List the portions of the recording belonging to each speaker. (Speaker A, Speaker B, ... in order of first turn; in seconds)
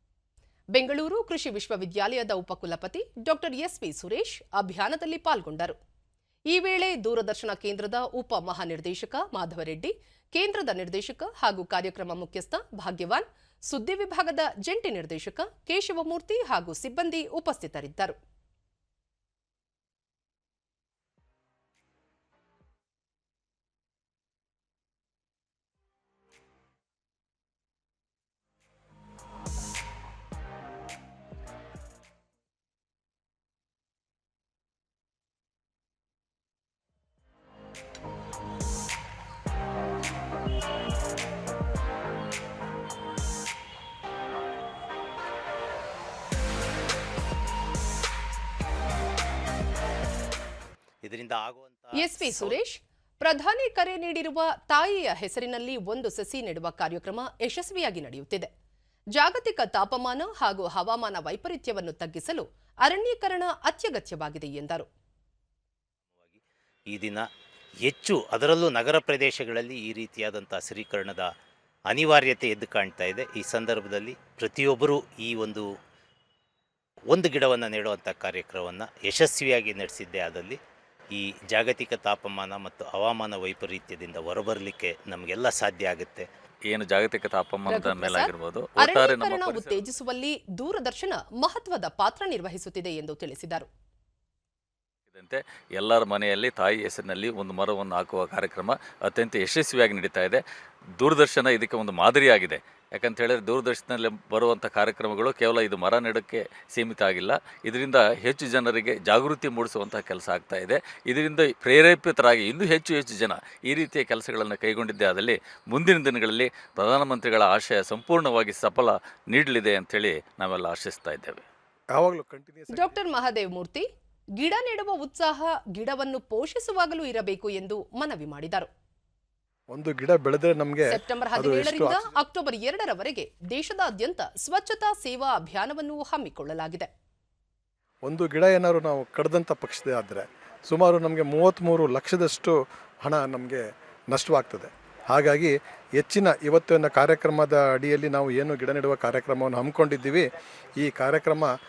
Speaker A: 0.7-5.8, 6.5-18.2, 52.0-58.5, 59.2-64.9, 87.7-93.7, 122.7-123.8, 124.4-128.7, 130.9-136.9
Speaker B: 51.0-52.6, 66.2-67.3, 67.8-71.3, 71.9-75.7, 77.1-80.6, 81.1-86.3
Speaker C: 86.7-89.8, 95.1-100.4, 101.0-121.4
Speaker D: 121.9-123.0, 129.7-132.1, 138.1-150.3, 150.8-151.5